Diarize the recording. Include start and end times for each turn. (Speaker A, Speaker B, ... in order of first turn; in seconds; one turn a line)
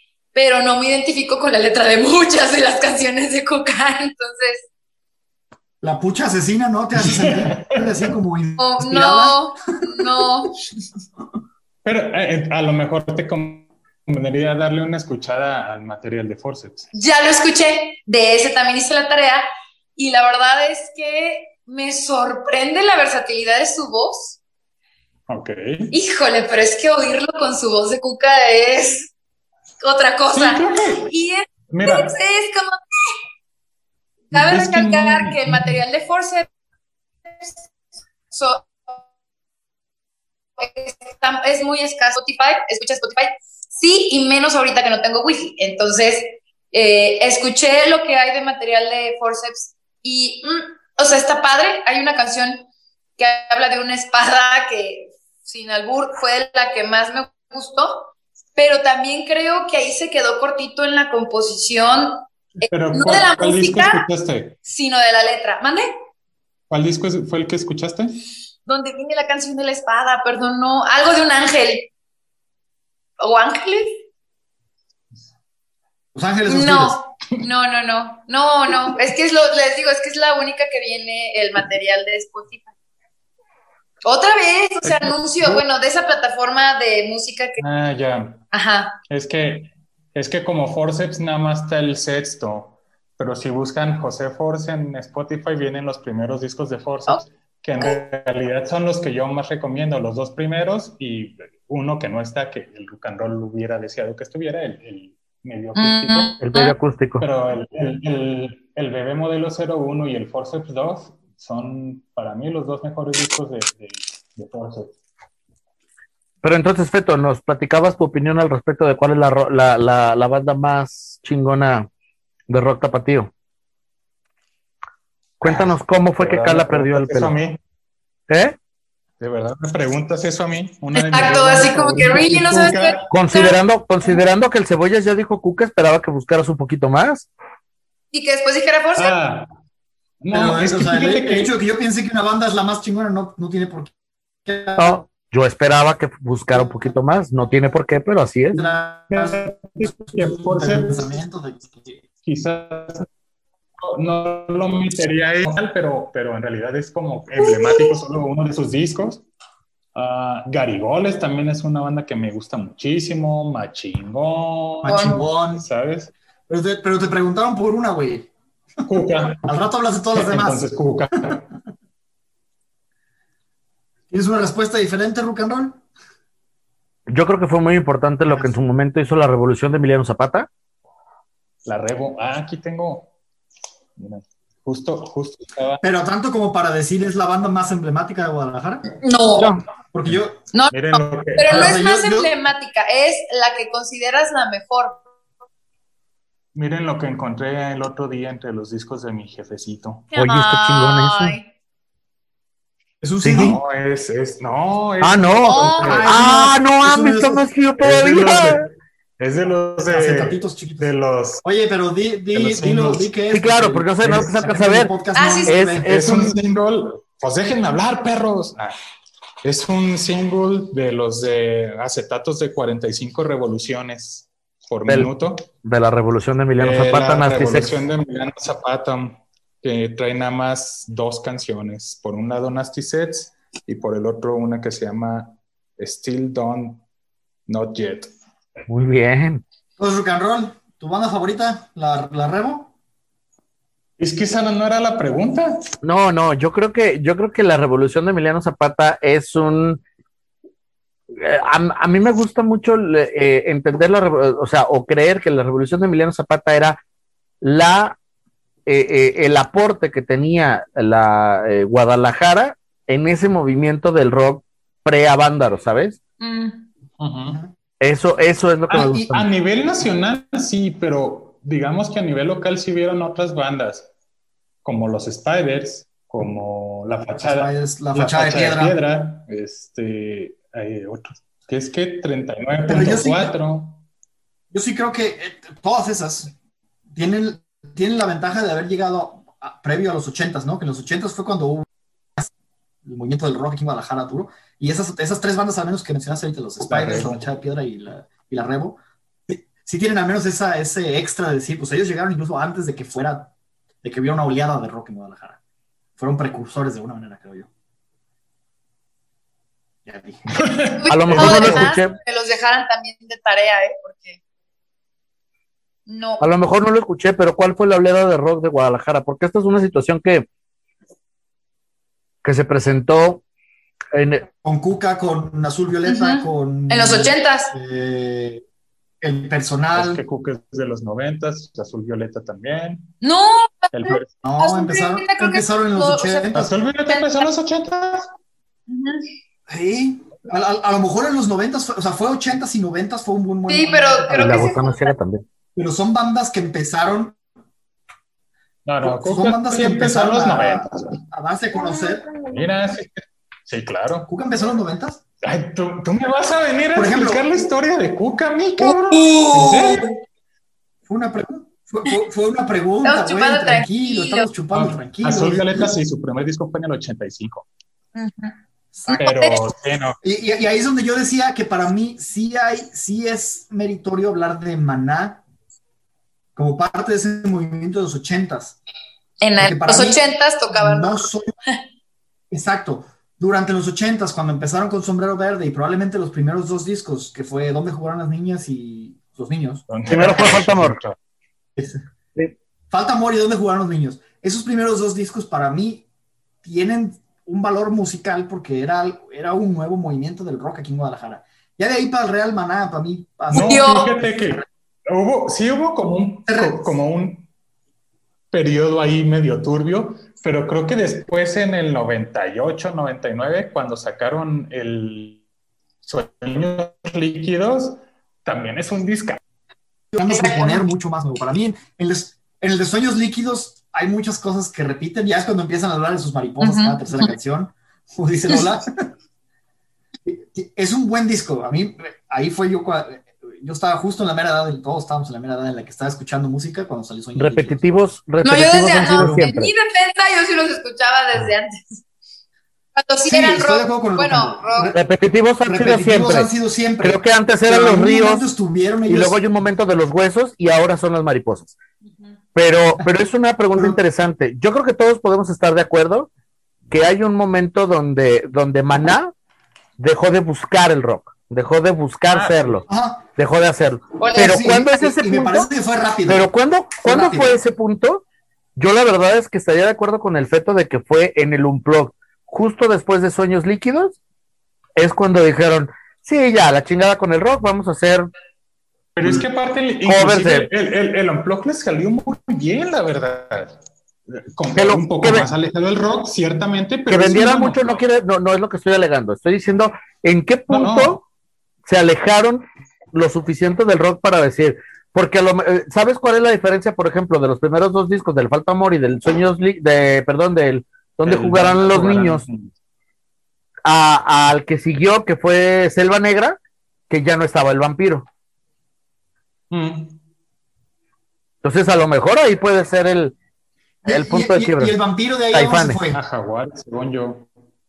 Speaker A: 0.3-4.7
Speaker B: 5.8-9.5
Speaker C: 7.0-8.1
Speaker A: 8.6-10.5
Speaker C: 11.8-16.9
Speaker A: 16.9-19.4
Speaker A: 20.0-24.4
Speaker C: 25.3-25.9
Speaker A: 25.9-29.1
Speaker A: 29.8-33.1
Speaker C: 30.3-31.1
Speaker C: 31.7-32.1
Speaker C: 34.3-35.8
Speaker A: 34.3-36.5
Speaker A: 38.3-38.8
Speaker A: 40.6-64.0
Speaker C: 62.7-64.6
Speaker A: 64.6-65.9
Speaker C: 66.7-68.1
Speaker A: 68.7-71.9
Speaker A: 73.2-74.0
Speaker B: 76.2-77.0
Speaker A: 76.5-82.7
Speaker A: 84.0-87.6
Speaker C: 84.8-85.6
Speaker C: 87.6-88.5
Speaker A: 88.5-89.0
Speaker C: 89.1-106.4
Speaker A: 105.8-106.8
Speaker D: 106.4-107.3
Speaker C: 107.2-115.0
Speaker D: 116.4-121.9
Speaker D: 122.5-123.3
Speaker D: 125.4-127.3
Speaker C: 125.4-127.6
Speaker D: 128.3-128.6
Speaker C: 129.2-133.0
Speaker A: 130.9-133.6
Speaker D: 133.1-137.3
Speaker A: 138.1-139.2
Speaker C: 139.0-139.5
Speaker C: 140.2-141.5
Speaker B: 140.3-143.9
Speaker B: 144.5-145.0
Speaker D: 144.8-148.6
Speaker B: 148.5-152.0
Speaker C: 149.1-151.1
Speaker C: 152.2-153.1
Speaker C: 153.8-159.2
Speaker A: 157.4-157.9
Speaker C: 159.9-166.1
Speaker B: 164.8-165.7
Speaker A: 164.9-165.2
Speaker B: 166.5-168.3
Speaker C: 168.9-169.5
Speaker B: 169.3-170.7
Speaker C: 170.1-171.4
Speaker B: 174.1-175.8
Speaker D: 177.1-180.5
Speaker B: 178.3-178.6
Speaker C: 181.7-183.1
Speaker C: 184.0-185.8
Speaker B: 185.8-188.8
Speaker A: 189.0-189.5
Speaker D: 189.4-189.6
Speaker B: 189.9-190.4
Speaker C: 190.1-191.8
Speaker A: 190.5-195.0
Speaker B: 191.5-192.3
Speaker C: 196.6-200.1
Speaker A: 200.1-201.5
Speaker D: 200.2-201.4
Speaker B: 203.0-203.6
Speaker D: 203.2-203.6
Speaker C: 203.4-206.1
Speaker D: 205.0-208.6
Speaker A: 205.4-206.1
Speaker B: 205.8-207.5
Speaker C: 207.8-211.4
Speaker B: 209.9-210.9
Speaker B: 211.4-215.9
Speaker C: 212.3-213.1
Speaker D: 213.3-214.9
Speaker C: 214.0-214.3
Speaker A: 215.2-215.6
Speaker D: 215.5-216.4
Speaker C: 215.8-218.8
Speaker C: 219.4-225.5
Speaker D: 225.6-227.8
Speaker C: 226.6-236.8
Speaker C: 237.5-238.1
Speaker D: 238.7-239.4
Speaker B: 239.8-242.7
Speaker C: 244.0-245.6
Speaker D: 245.8-249.8
Speaker D: 251.1-256.8
Speaker D: 257.4-258.0
Speaker D: 258.7-266.0
Speaker A: 266.2-266.6
Speaker C: 267.0-267.4
Speaker D: 267.8-269.3
Speaker C: 268.7-273.9
Speaker C: 274.6-283.8
Speaker B: 277.2-278.8
Speaker B: 282.7-283.4
Speaker B: 284.5-286.3
Speaker B: 286.9-291.7
Speaker B: 292.9-303.3
Speaker C: 296.7-297.2
Speaker B: 303.8-305.4
Speaker B: 306.0-307.5
Speaker B: 309.9-310.4
Speaker C: 310.3-311.7
Speaker A: 310.8-314.2
Speaker D: 310.9-311.9
Speaker A: 315.9-316.3
Speaker D: 316.2-320.3
Speaker D: 322.2-323.2
Speaker D: 323.9-324.3
Speaker B: 324.4-328.4
Speaker A: 325.9-327.5
Speaker B: 329.0-330.0
Speaker C: 329.8-332.9
Speaker A: 333.0-336.4
Speaker C: 333.7-334.1
Speaker B: 334.2-336.5
Speaker C: 336.3-338.1
Speaker A: 336.9-337.3
Speaker A: 338.7-339.0
Speaker B: 339.5-344.6
Speaker A: 343.5-344.9
Speaker D: 344.1-345.2
Speaker B: 345.6-347.2
Speaker C: 348.7-351.0
Speaker B: 348.8-352.1
Speaker C: 352.2-354.1
Speaker B: 354.1-355.0
Speaker C: 355.2-359.9
Speaker B: 356.7-357.2
Speaker B: 358.9-359.9
Speaker B: 360.9-365.7
Speaker A: 362.8-364.3
Speaker C: 364.5-367.5
Speaker A: 367.9-368.3
Speaker B: 368.7-369.0
Speaker A: 368.9-369.4
Speaker C: 369.0-370.0
Speaker B: 370.0-375.2
Speaker B: 376.4-378.6
Speaker A: 379.2-381.0
Speaker B: 379.4-381.3
Speaker B: 382.3-389.7
Speaker C: 389.7-391.0
Speaker D: 389.9-390.8
Speaker B: 392.7-395.9
Speaker B: 396.4-404.1
Speaker C: 403.3-407.3
Speaker A: 403.3-403.9
Speaker B: 406.3-406.7
Speaker C: 408.3-415.2
Speaker C: 415.8-419.2
Speaker B: 419.9-428.9
Speaker A: 420.1-420.6
Speaker A: 426.4-427.1
Speaker B: 430.1-437.7
Speaker D: 437.2-439.5
Speaker A: 438.2-441.8
Speaker B: 438.9-439.3
Speaker A: 442.8-444.7
Speaker B: 443.1-444.8
Speaker D: 444.7-448.2
Speaker B: 445.4-449.2
Speaker D: 448.9-451.6
Speaker D: 452.4-456.1
Speaker D: 456.7-459.1
Speaker D: 459.8-462.7
Speaker C: 462.1-462.7
Speaker B: 462.7-463.1
Speaker D: 463.2-465.5
Speaker A: 464.0-464.5
Speaker B: 464.2-466.3
Speaker D: 466.1-468.0
Speaker B: 466.8-467.4
Speaker D: 468.6-474.0
Speaker D: 474.8-478.1
Speaker C: 479.0-483.6
Speaker D: 479.9-480.5
Speaker C: 484.1-487.8
Speaker D: 484.6-485.3
Speaker D: 486.9-491.0
Speaker C: 490.5-491.0
Speaker D: 491.7-502.2
Speaker C: 501.1-502.5
Speaker D: 503.6-506.4
Speaker D: 506.9-508.1
Speaker C: 509.5-510.0
Speaker D: 511.4-513.1
Speaker B: 513.9-516.0
Speaker D: 513.9-514.8
Speaker D: 515.3-515.8
Speaker C: 515.9-517.3